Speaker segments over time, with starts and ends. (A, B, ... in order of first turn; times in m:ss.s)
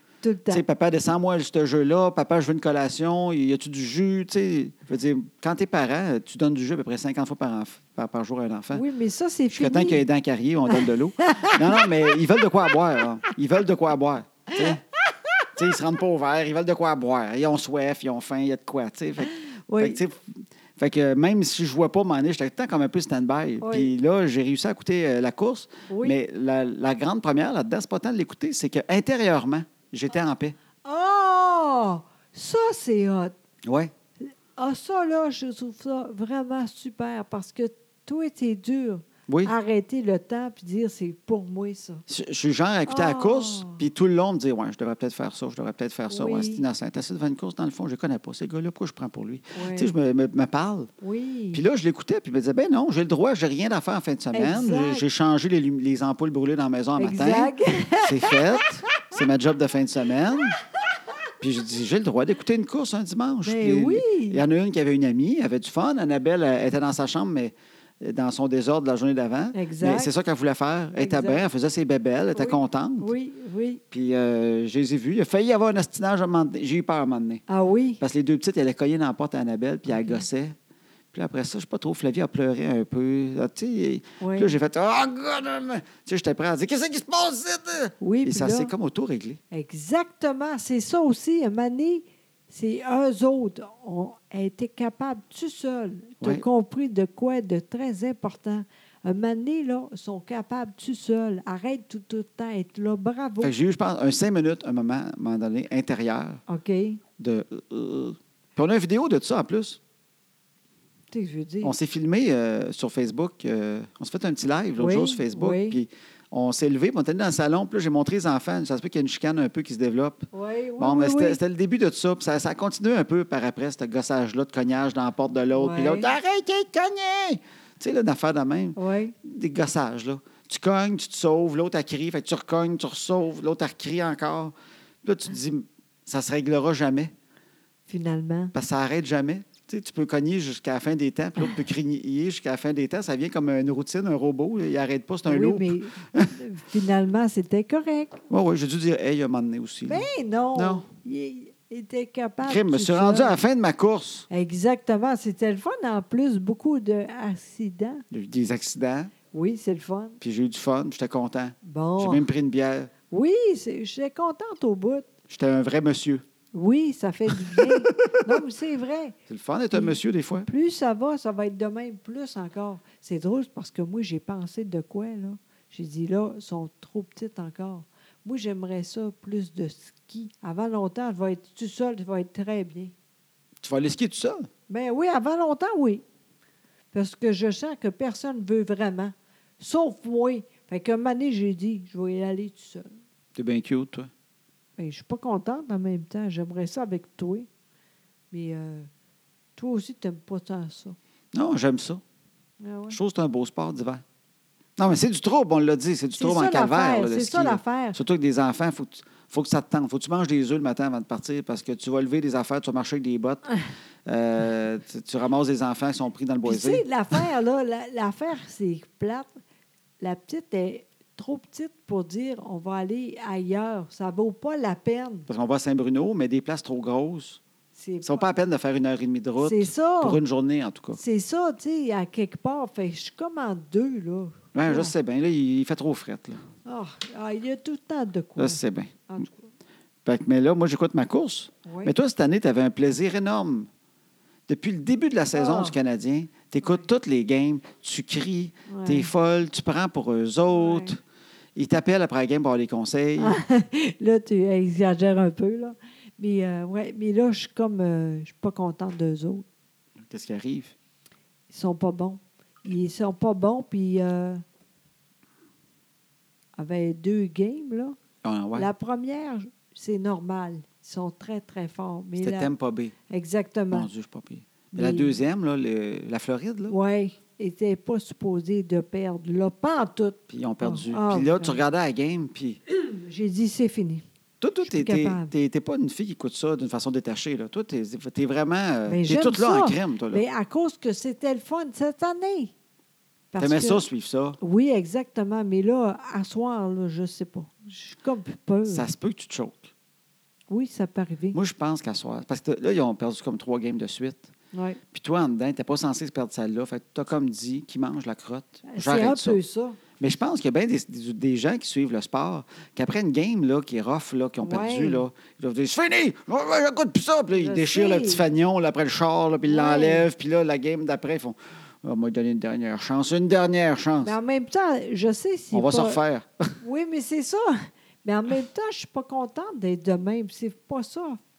0:00.2-0:00.6 A
0:00.5-0:08.8 B
0:08.7-0:10.0 A
0:09.5-0:14.8 B
0:10.7-0:12.8 A
0:14.6-0:15.3 A
0:15.5-0:30.6 B
0:19.2-0:20.0 A
0:23.6-0:23.9 A
0:25.9-0:26.2 A
0:30.8-0:33.3 A
0:33.6-0:33.9 B
0:34.6-0:42.0 A
0:39.3-0:39.5 B
0:42.1-0:50.9 B
0:42.9-0:43.8 A
0:46.1-0:46.6 A
0:49.5-0:49.9 A
0:51.0-0:51.6 A
0:51.5-1:00.6 B
0:54.3-0:55.0 A
0:57.0-0:58.6 A
1:01.4-1:13.1 B
1:03.4-1:04.4 A
1:09.5-1:10.1 A
1:11.0-1:11.5 A
1:12.3-1:13.8 A
1:13.9-1:17.4 B
1:17.5-1:18.0 A
1:18.0-1:20.5 B
1:19.9-1:20.2 A
1:21.1-1:29.4 B
1:24.2-1:24.6 A
1:28.0-1:28.7 A
1:29.5-1:43.5 A
1:36.2-1:36.4 B
1:43.4-1:46.4 B
1:46.5-1:47.0 A
1:47.2-1:49.8 B
1:51.1-1:51.8 A
1:51.6-2:17.1 B
1:54.8-1:55.8 A
2:00.3-2:01.4 A
2:05.5-2:06.1 A
2:08.8-2:09.1 A
2:17.9-2:18.5 A
2:18.5-2:26.3 B
2:25.2-2:28.2 A
2:28.3-2:30.9 B
2:29.9-2:33.3 A
2:32.4-2:34.2 B
2:34.3-2:38.0 A
2:38.1-2:39.1 B
2:39.3-2:40.2 A
2:40.2-2:42.9 B
2:41.6-2:42.3 A
2:43.1-2:45.1 A
2:45.3-2:46.2 B
2:46.5-2:49.2 A
2:47.3-2:48.2 B
2:49.3-2:50.5 B
2:49.7-3:02.9 A
3:03.6-3:04.5 B
3:04.7-3:06.0 A
3:06.9-3:12.9 A
3:13.4-3:14.1 B
3:14.8-3:17.5 A
3:18.3-3:18.9 A
3:19.6-3:21.0 A
3:21.3-3:22.0 B
3:22.6-3:23.0 A
3:22.9-3:24.0 B
3:24.8-3:33.5 B
3:26.2-3:28.0 A
3:34.0-3:36.8 B
3:36.4-3:39.3 A
3:40.0-3:45.3 A
3:45.3-3:47.4 B
3:47.7-3:48.2 A
3:48.0-3:51.0 B
3:49.4-3:50.2 A
3:50.9-3:54.9 A
3:54.5-3:56.4 B
3:56.6-3:59.4 A
3:58.4-3:59.0 B
4:00.0-4:03.7 B
4:01.6-4:01.9 A
4:04.5-4:11.0 B
4:05.3-4:05.8 A
4:08.7-4:09.1 A
4:10.5-4:11.0 A
4:11.6-4:13.4 B
4:13.2-4:19.4 A
4:20.0-4:20.7 B
4:21.5-4:24.4 A
4:26.6-4:28.0 A
4:28.2-4:28.7 B
4:28.5-4:32.5 A
4:32.2-4:32.9 B
4:33.1-4:33.9 A
4:33.7-4:36.7 B
4:34.7-4:35.2 A
4:36.7-4:41.6 A
4:40.3-4:42.6 B
4:42.7-4:44.0 A
4:44.4-4:50.2 B
4:44.6-4:45.3 A
4:48.9-4:52.5 A
4:53.3-4:53.8 A
4:53.4-4:54.4 B
4:54.4-4:58.9 A
4:58.6-4:59.7 B
5:00.5-5:01.4 A
5:01.3-5:04.3 B
5:04.5-5:04.8 A
5:04.9-5:09.4 B
5:08.7-5:09.8 A
5:10.0-5:24.2 B
5:14.4-5:15.0 A
5:17.3-5:18.2 A
5:19.4-5:20.1 A
5:24.0-5:26.0 A
5:25.5-5:26.6 B
5:26.6-5:31.2 A